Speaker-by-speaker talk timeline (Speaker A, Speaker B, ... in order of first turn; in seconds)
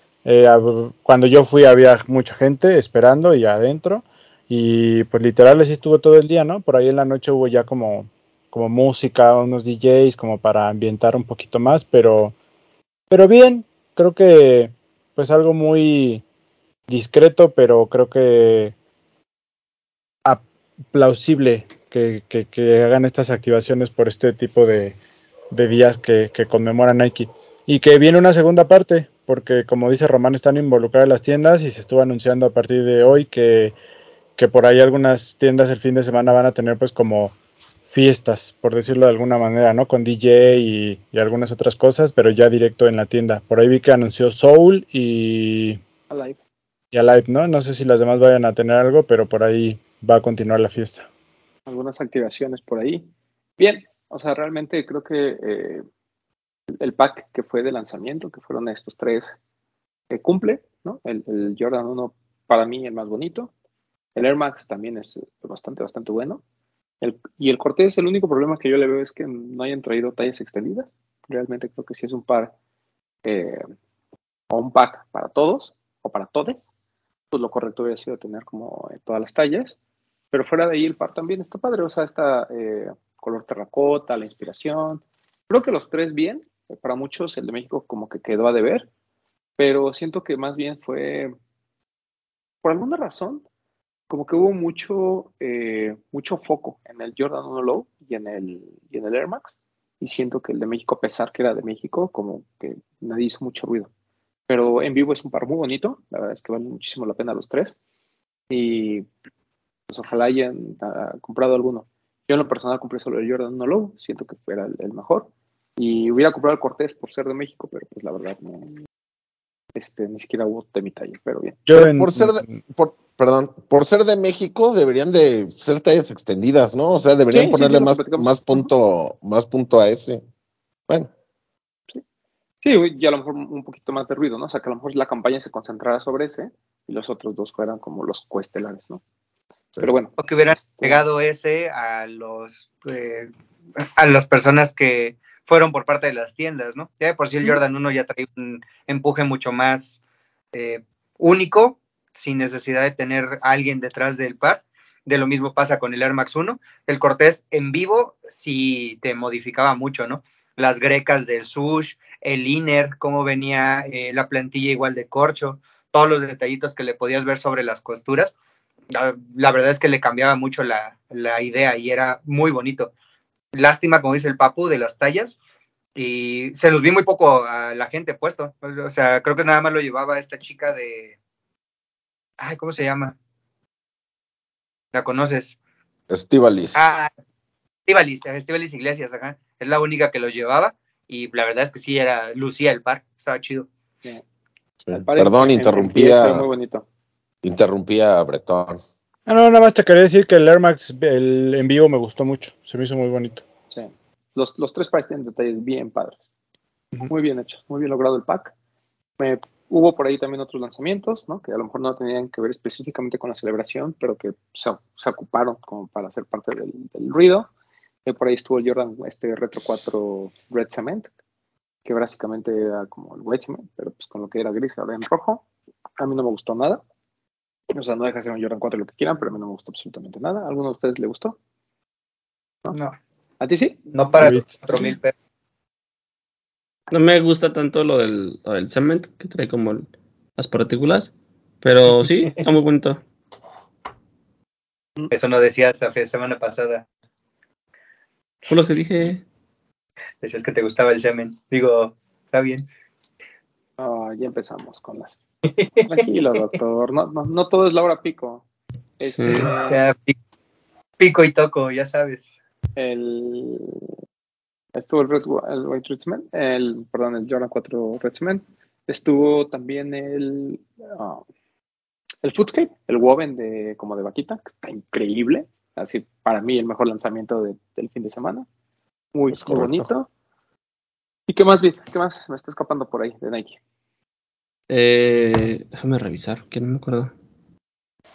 Speaker A: 0.2-12.3, 13.1-16.2, 16.9-18.7, 20.2-24.9, 25.5-33.8, 34.4-37.3, 37.9-45.8, 46.9-51.0, 121.7-122.6, 199.3-203.4, 234.2-234.6
Speaker B: 46.1-46.4, 51.6-53.1, 53.6-55.8, 56.8-59.4, 60.1-63.5, 64.1-66.4, 67.0-72.5, 73.2-73.6, 74.5-76.6, 77.3-79.8, 80.3-88.9, 89.6-91.3, 92.6-93.4, 94.1-103.9, 104.5-107.8, 108.5-109.1, 109.9-118.8, 119.8-121.6, 127.3-128.7, 132.6-139.0, 139.8-141.0, 194.9-196.8, 203.7-206.2, 207.1-208.5, 209.2-217.5, 218.0-221.1, 221.8-225.4, 226.0-226.8, 227.7-231.4, 233.4-233.8, 253.8-255.2, 255.8-258.4, 259.0-259.8, 262.8-263.9, 264.8-271.2, 272.2-278.5, 279.1-280.1, 281.3-283.6
Speaker C: 121.7-130.2, 186.1-187.0, 194.8-196.4, 197.4-198.8, 279.3-279.9
Speaker D: 140.2-150.0, 150.5-168.3, 168.9-172.9, 173.5-175.4, 175.9-181.1, 182.4-183.1, 184.9-185.6, 186.8-187.1, 187.9-193.7, 233.9-235.1, 245.1-246.8, 250.2-252.7, 255.5-256.0, 259.3-260.1, 261.0-262.3
Speaker E: 236.9-243.0, 248.5-249.2, 259.0-259.6, 284.7-287.1